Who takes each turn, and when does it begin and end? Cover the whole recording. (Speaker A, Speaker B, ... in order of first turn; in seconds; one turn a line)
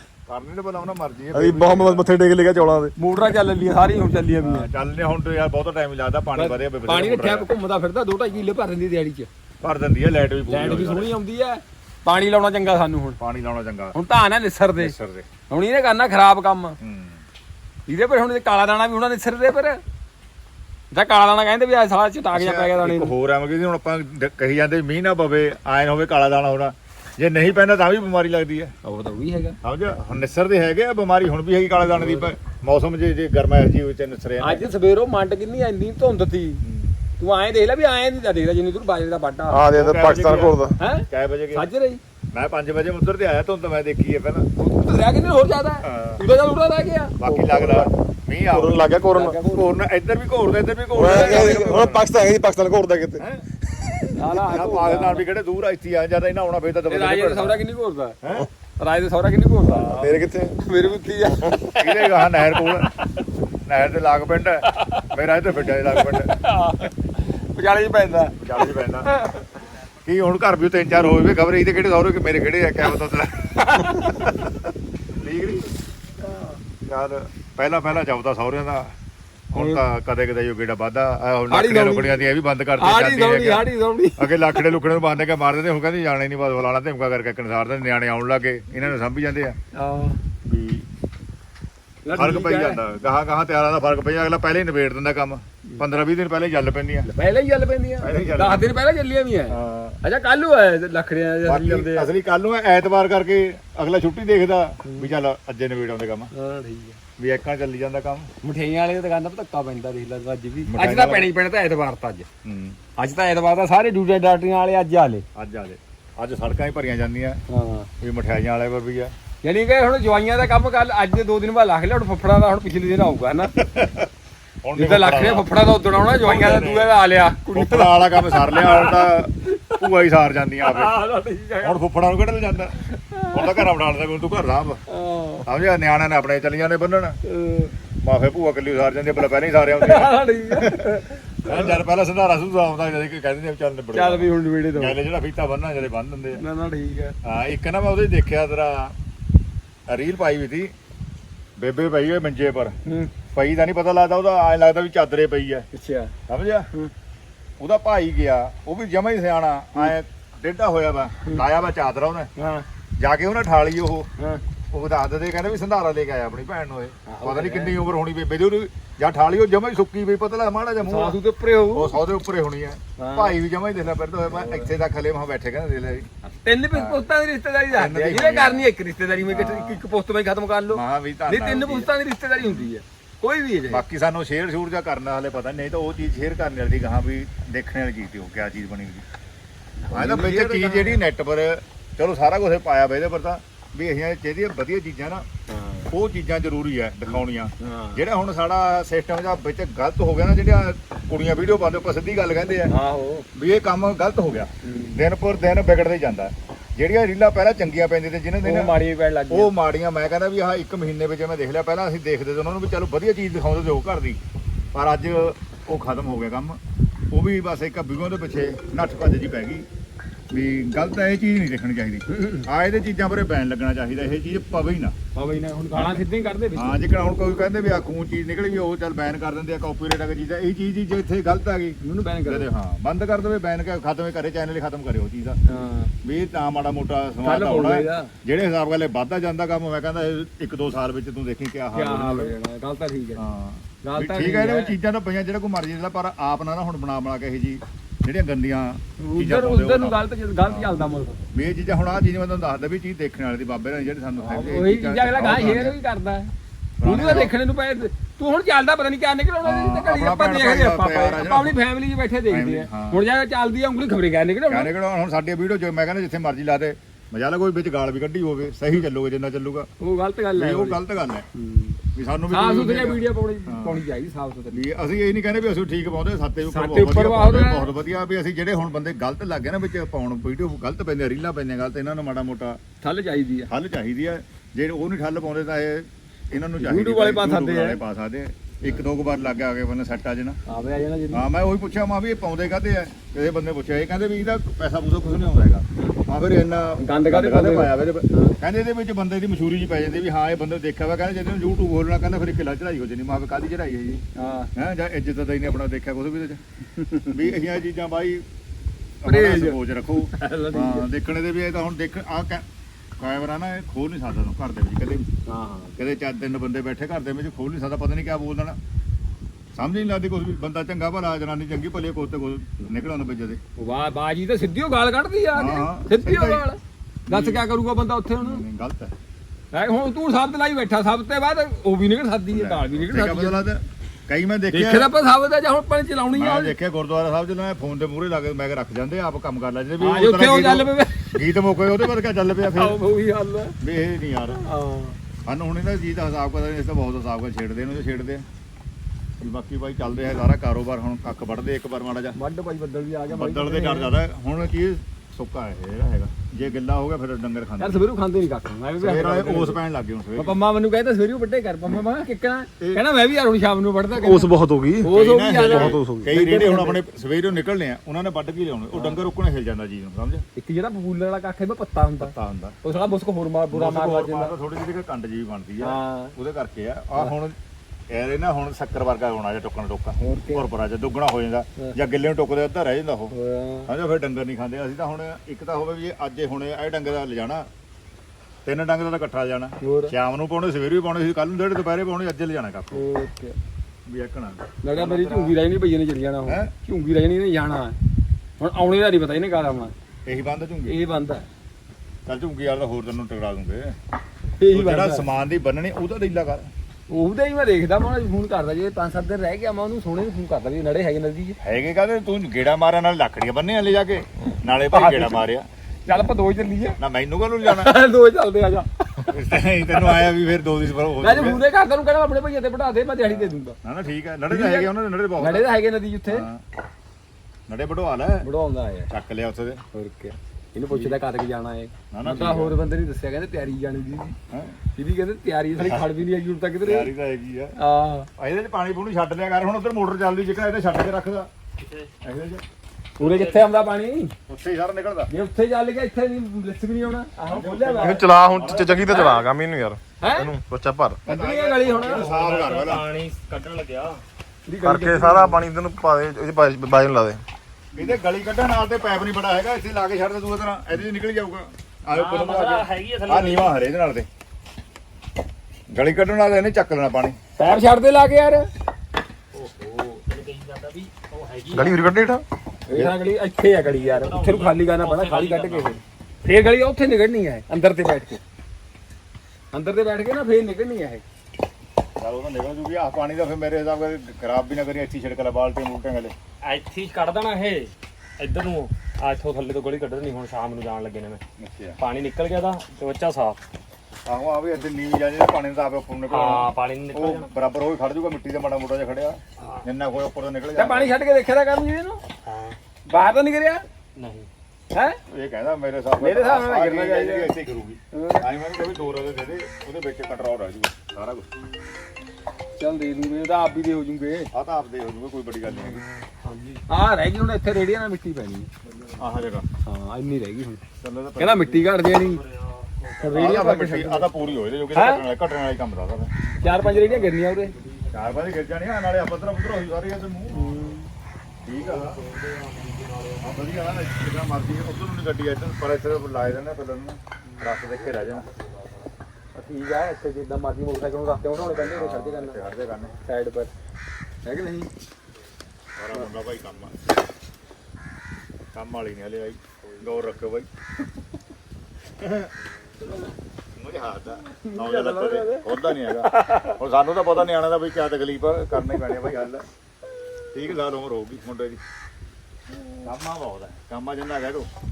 Speaker A: 0.3-2.1
Speaker B: 1.3-2.9
Speaker C: 3.0-4.7
Speaker A: 4.4-7.5
Speaker C: 6.3-9.3
Speaker A: 9.6-11.1
Speaker C: 10.5-13.2
Speaker A: 13.2-14.0
Speaker C: 13.9-14.9
Speaker A: 14.8-15.3
Speaker C: 15.5-16.8
Speaker A: 16.8-17.2
Speaker C: 17.9-19.8
Speaker C: 20.9-23.1
Speaker A: 22.3-28.7
Speaker C: 28.8-29.6
Speaker A: 29.6-34.7
Speaker C: 31.9-32.3
Speaker C: 34.4-36.6
Speaker A: 36.6-36.9
Speaker C: 37.2-39.6
Speaker B: 39.5-40.8
Speaker A: 39.7-40.6
Speaker C: 40.8-42.0
Speaker A: 41.1-41.6
Speaker A: 42.3-44.5
Speaker C: 44.6-47.9
Speaker A: 45.8-46.2
Speaker A: 47.2-48.9
Speaker B: 48.5-49.4
Speaker C: 49.1-49.7
Speaker A: 49.5-52.1
Speaker B: 50.9-53.2
Speaker C: 51.0-51.9
Speaker A: 53.2-53.5
Speaker B: 53.8-54.1
Speaker C: 54.2-55.2
Speaker A: 54.5-57.6
Speaker C: 56.9-58.2
Speaker A: 58.2-58.5
Speaker C: 58.8-62.7
Speaker B: 59.9-60.6
Speaker A: 61.8-62.9
Speaker A: 63.7-66.3
Speaker C: 64.7-65.1
Speaker C: 65.9-66.9
Speaker C: 67.5-69.4
Speaker A: 68.4-69.1
Speaker A: 70.0-74.3
Speaker C: 73.6-74.3
Speaker A: 75.1-75.7
Speaker C: 76.2-76.6
Speaker A: 76.9-78.9
Speaker A: 79.5-89.6
Speaker C: 79.5-79.8
Speaker C: 81.5-84.7
Speaker C: 89.8-90.2
Speaker A: 90.5-90.9
Speaker C: 92.0-92.8
Speaker A: 92.2-97.1
Speaker C: 97.1-102.1
Speaker A: 98.0-98.7
Speaker A: 99.5-100.0
Speaker A: 101.5-106.3
Speaker C: 104.8-105.1
Speaker C: 106.3-107.0
Speaker A: 107.2-108.3
Speaker C: 108.4-112.3
Speaker A: 110.7-111.3
Speaker A: 112.5-112.8
Speaker C: 113.0-115.2
Speaker A: 115.3-117.4
Speaker C: 117.5-117.9
Speaker A: 118.0-119.1
Speaker C: 119.4-123.5
Speaker A: 123.6-124.1
Speaker A: 124.6-126.9
Speaker C: 124.8-129.8
Speaker A: 127.5-131.0
Speaker C: 130.6-131.8
Speaker A: 131.6-134.8
Speaker C: 132.9-133.6
Speaker C: 134.9-135.5
Speaker A: 135.5-137.2
Speaker C: 137.2-137.7
Speaker A: 138.0-146.4
Speaker C: 139.8-141.8
Speaker C: 143.9-145.0
Speaker C: 146.4-147.2
Speaker A: 147.2-148.9
Speaker A: 149.9-150.7
Speaker A: 151.6-152.8
Speaker C: 152.9-153.1
Speaker A: 153.3-155.7
Speaker C: 155.7-156.1
Speaker A: 156.3-156.7
Speaker A: 157.6-162.3
Speaker C: 162.4-162.7
Speaker A: 163.0-164.1
Speaker A: 164.7-171.2
Speaker C: 167.1-167.8
Speaker C: 170.8-172.0
Speaker A: 171.7-176.1
Speaker C: 173.0-173.4
Speaker C: 174.3-174.7
Speaker C: 176.2-183.8
Speaker A: 176.7-177.0
Speaker A: 177.7-178.7
Speaker A: 179.2-179.8
Speaker A: 180.7-182.7
Speaker A: 183.7-189.1
Speaker C: 189.8-191.0
Speaker A: 189.9-195.3
Speaker C: 195.5-195.9
Speaker A: 195.9-202.7
Speaker C: 197.1-198.0
Speaker C: 202.7-203.3
Speaker A: 203.3-208.7
Speaker C: 204.6-205.0
Speaker C: 208.4-209.5
Speaker A: 209.3-214.2
Speaker A: 214.7-216.6
Speaker A: 217.1-219.7
Speaker A: 220.3-225.0
Speaker C: 222.1-222.5
Speaker C: 225.1-226.8
Speaker A: 225.7-226.0
Speaker A: 226.6-235.4
Speaker C: 231.8-232.5
Speaker C: 235.5-235.9
Speaker A: 236.0-242.3
Speaker C: 237.2-238.1
Speaker C: 241.7-243.2
Speaker A: 243.2-250.7
Speaker C: 243.8-244.8
Speaker C: 249.0-251.2
Speaker A: 251.3-255.8
Speaker C: 254.2-256.3
Speaker A: 256.8-257.3
Speaker C: 256.8-264.7
Speaker A: 259.4-261.6
Speaker A: 262.3-263.0
Speaker A: 264.5-269.7
Speaker C: 269.8-270.8
Speaker A: 270.4-271.2
Speaker C: 271.4-271.8
Speaker A: 271.9-273.8
Speaker C: 272.3-274.6
Speaker A: 274.5-282.6
Speaker C: 276.4-277.7
Speaker C: 282.8-283.5
Speaker A: 283.5-290.4
Speaker C: 286.6-287.8
Speaker C: 290.5-291.2
Speaker A: 291.1-304.0
Speaker C: 296.8-298.4
Speaker C: 304.2-304.5
Speaker A: 304.6-306.4
Speaker C: 306.8-307.3
Speaker A: 307.1-308.2
Speaker A: 309.0-312.4
Speaker C: 309.1-310.9
Speaker A: 313.0-315.1
Speaker C: 315.3-315.8
Speaker A: 315.8-318.6
Speaker A: 319.6-323.4
Speaker C: 323.6-328.4
Speaker A: 325.4-326.4
Speaker A: 327.1-327.4
Speaker A: 328.2-328.9
Speaker C: 329.5-333.5
Speaker A: 332.3-334.9
Speaker C: 334.5-336.6
Speaker A: 336.1-342.8
Speaker C: 339.8-341.2
Speaker C: 342.6-343.6
Speaker A: 343.6-344.4
Speaker C: 344.4-345.0
Speaker A: 345.3-348.2
Speaker A: 349.2-352.2
Speaker C: 352.1-353.9
Speaker A: 353.1-357.8
Speaker C: 357.6-359.6
Speaker A: 358.8-360.4
Speaker C: 360.2-364.3
Speaker B: 364.0-366.1
Speaker C: 364.8-366.8
Speaker A: 364.9-370.2
Speaker C: 368.7-369.0
Speaker C: 370.4-374.3
Speaker A: 372.0-372.6
Speaker A: 373.5-377.4
Speaker C: 375.6-376.1
Speaker A: 377.9-383.1
Speaker C: 380.0-380.5
Speaker C: 383.1-383.7
Speaker A: 383.7-387.5
Speaker A: 388.4-392.8
Speaker C: 389.6-389.9
Speaker C: 392.7-393.4
Speaker A: 393.9-395.4
Speaker C: 394.6-397.8
Speaker C: 398.4-399.7
Speaker A: 400.1-400.8
Speaker C: 400.7-401.3
Speaker A: 402.1-403.8
Speaker C: 404.4-405.1
Speaker A: 404.5-406.5
Speaker C: 406.9-411.4
Speaker A: 411.4-415.5
Speaker C: 414.7-415.2
Speaker C: 415.9-416.8
Speaker A: 416.8-417.7
Speaker C: 417.4-419.1
Speaker A: 419.1-421.4
Speaker C: 419.8-420.0
Speaker C: 421.0-423.6
Speaker A: 423.1-425.6
Speaker C: 424.3-426.3
Speaker A: 426.1-426.4
Speaker A: 427.5-428.3
Speaker C: 428.2-428.9
Speaker A: 428.9-429.6
Speaker C: 429.7-434.2
Speaker A: 430.7-431.0
Speaker A: 431.9-432.6
Speaker A: 434.3-434.6
Speaker C: 434.8-436.9
Speaker A: 435.6-435.9
Speaker A: 436.6-437.5
Speaker C: 437.6-438.1
Speaker A: 438.2-441.3
Speaker D: 441.6-441.9
Speaker A: 442.0-442.4
Speaker D: 443.0-443.5
Speaker C: 443.0-444.1
Speaker A: 444.3-445.1
Speaker C: 445.1-448.1
Speaker A: 447.3-449.1
Speaker B: 447.8-451.0
Speaker C: 450.0-450.3
Speaker A: 451.1-452.9
Speaker C: 451.1-452.1
Speaker D: 451.8-454.0
Speaker C: 454.5-455.4
Speaker B: 454.6-457.2
Speaker A: 457.8-464.1
Speaker D: 461.9-463.6
Speaker A: 465.7-467.2
Speaker C: 467.4-468.5
Speaker D: 469.3-471.8
Speaker B: 471.5-472.2
Speaker C: 472.7-478.2
Speaker D: 473.7-475.8
Speaker C: 479.5-481.0
Speaker A: 482.0-486.1
Speaker D: 486.4-491.2
Speaker A: 491.4-491.8
Speaker D: 491.8-493.4
Speaker A: 494.1-500.9
Speaker D: 496.1-497.3
Speaker D: 499.4-499.6
Speaker C: 500.6-502.0
Speaker D: 502.2-502.6
Speaker C: 502.9-503.6
Speaker D: 503.9-504.3
Speaker C: 504.7-505.0
Speaker A: 505.1-511.3
Speaker C: 506.0-507.3
Speaker C: 507.9-508.3
Speaker C: 512.6-514.3
Speaker A: 514.3-515.8
Speaker D: 515.9-516.6
Speaker C: 516.7-518.5
Speaker D: 518.6-519.2
Speaker A: 519.0-519.5
Speaker C: 519.6-520.6
Speaker A: 520.8-521.7
Speaker C: 521.2-522.2
Speaker D: 521.9-523.5
Speaker C: 523.0-524.1
Speaker A: 523.1-526.2
Speaker C: 524.7-525.0
Speaker D: 526.3-528.3
Speaker C: 526.4-527.5
Speaker A: 527.9-530.5
Speaker C: 530.3-530.9
Speaker A: 531.4-532.0
Speaker D: 531.5-533.6
Speaker A: 533.2-538.3
Speaker D: 537.2-538.9
Speaker C: 539.3-542.5
Speaker A: 541.3-543.0
Speaker C: 543.0-543.5
Speaker C: 544.2-544.7
Speaker A: 545.8-546.7
Speaker A: 548.5-550.5
Speaker A: 552.0-552.3
Speaker A: 553.6-559.5
Speaker C: 554.4-556.6
Speaker A: 560.3-561.6
Speaker A: 562.8-564.5